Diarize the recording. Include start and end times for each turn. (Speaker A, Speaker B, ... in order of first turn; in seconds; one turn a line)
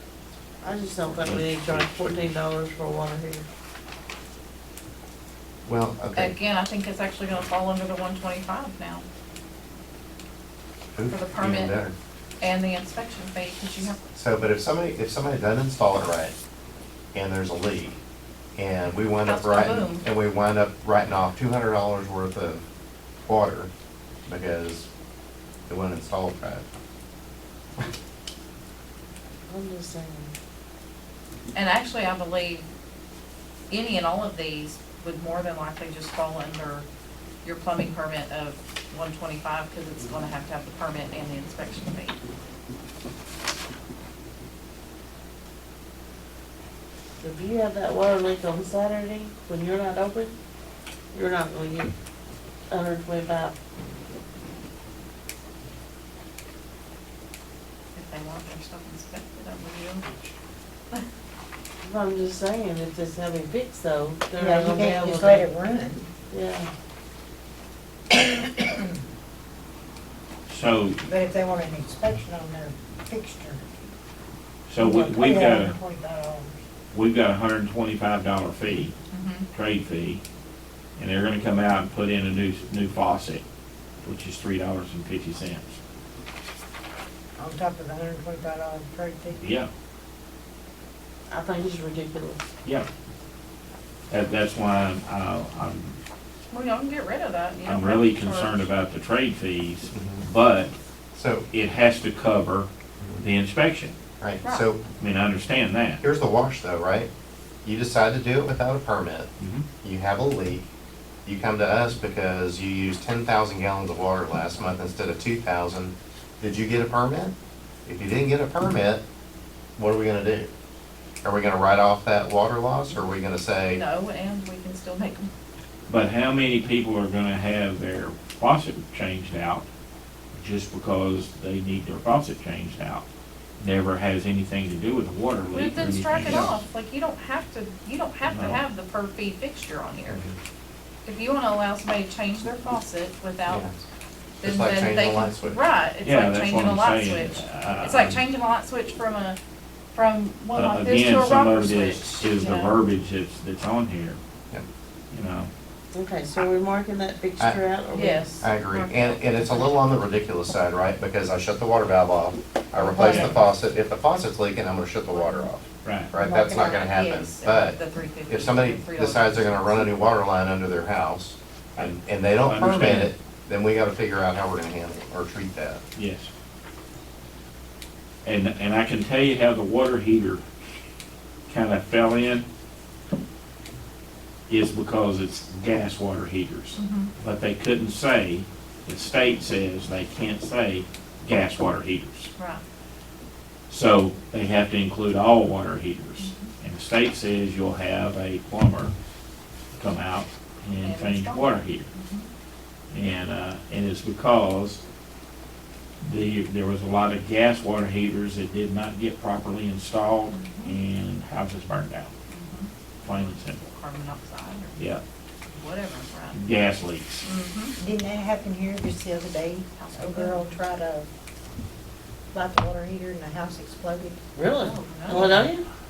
Speaker A: 0.6-3.5
Speaker B: 1.1-2.3
Speaker C: 5.6-6.4
Speaker D: 6.2-9.1
Speaker C: 10.9-11.9
Speaker D: 11.1-11.8
Speaker D: 12.4-14.0
Speaker C: 14.1-16.4
Speaker C: 17.1-18.0
Speaker C: 18.6-22.6
Speaker D: 19.2-20.1
Speaker C: 23.2-23.7
Speaker C: 24.3-24.9
Speaker C: 25.7-26.6
Speaker A: 29.5-30.4
Speaker D: 31.5-32.7
Speaker D: 33.7-36.9
Speaker D: 37.4-42.2
Speaker A: 47.2-50.4
Speaker A: 51.1-51.9
Speaker A: 52.7-53.5
Speaker D: 58.0-60.3
Speaker A: 61.8-65.5
Speaker E: 64.4-66.1
Speaker A: 66.3-66.7
Speaker B: 70.5-71.0
Speaker E: 71.1-73.6
Speaker B: 74.7-75.8
Speaker A: 74.8-75.5
Speaker E: 75.2-76.6
Speaker B: 76.9-79.0
Speaker D: 79.1-79.5
Speaker B: 79.5-80.2
Speaker B: 81.0-83.4
Speaker B: 84.0-85.8
Speaker E: 87.4-89.4
Speaker B: 89.3-89.7
Speaker A: 91.3-92.4
Speaker B: 94.1-96.0
Speaker D: 96.5-98.7
Speaker B: 97.7-100.7
Speaker C: 99.9-100.2
Speaker C: 101.1-101.5
Speaker B: 101.5-102.7
Speaker B: 103.2-104.0
Speaker C: 104.2-104.8
Speaker B: 105.0-106.0
Speaker C: 106.0-107.1
Speaker C: 107.6-110.6
Speaker B: 109.4-109.7
Speaker C: 111.2-119.0
Speaker C: 119.8-120.5
Speaker C: 121.2-123.8
Speaker D: 123.7-125.3
Speaker B: 125.9-129.7
Speaker B: 130.3-133.1
Speaker B: 133.6-136.6
Speaker D: 135.5-140.2
Speaker C: 136.2-136.5
Speaker B: 138.3-138.6
Speaker D: 141.1-143.7
Speaker C: 143.5-143.8
Speaker D: 144.4-149.4
Speaker C: 144.4-145.6
Speaker B: 146.0-148.2
Speaker D: 149.9-152.8
Speaker B: 150.5-154.2
Speaker B: 155.1-155.5
Speaker A: 155.9-158.2
Speaker D: 157.9-159.8
Speaker C: 158.4-167.8
Speaker D: 162.8-163.4
Speaker B: 163.0-163.4
Speaker D: 165.1-165.5
Speaker B: 165.8-166.1
Speaker A: 166.2-166.6
Speaker D: 166.2-169.9
Speaker C: 168.3-175.8
Speaker B: 172.4-173.1
Speaker B: 175.9-176.3
Speaker B: 178.2-180.4
Speaker B: 181.5-182.5
Speaker B: 184.5-192.3
Speaker D: 186.8-187.1
Speaker D: 192.4-192.6
Speaker B: 193.7-198.9
Speaker D: 196.2-196.5
Speaker B: 199.7-201.9
Speaker D: 200.8-202.3
Speaker B: 202.9-204.8
Speaker B: 206.0-212.1
Speaker D: 210.3-210.8
Speaker D: 212.3-214.8
Speaker B: 213.0-213.6
Speaker B: 214.8-215.0
Speaker D: 215.5-216.4
Speaker B: 216.3-217.2
Speaker D: 217.2-217.8
Speaker E: 217.8-221.1
Speaker D: 219.8-220.5
Speaker E: 222.3-224.2
Speaker A: 224.3-225.7
Speaker D: 224.6-225.4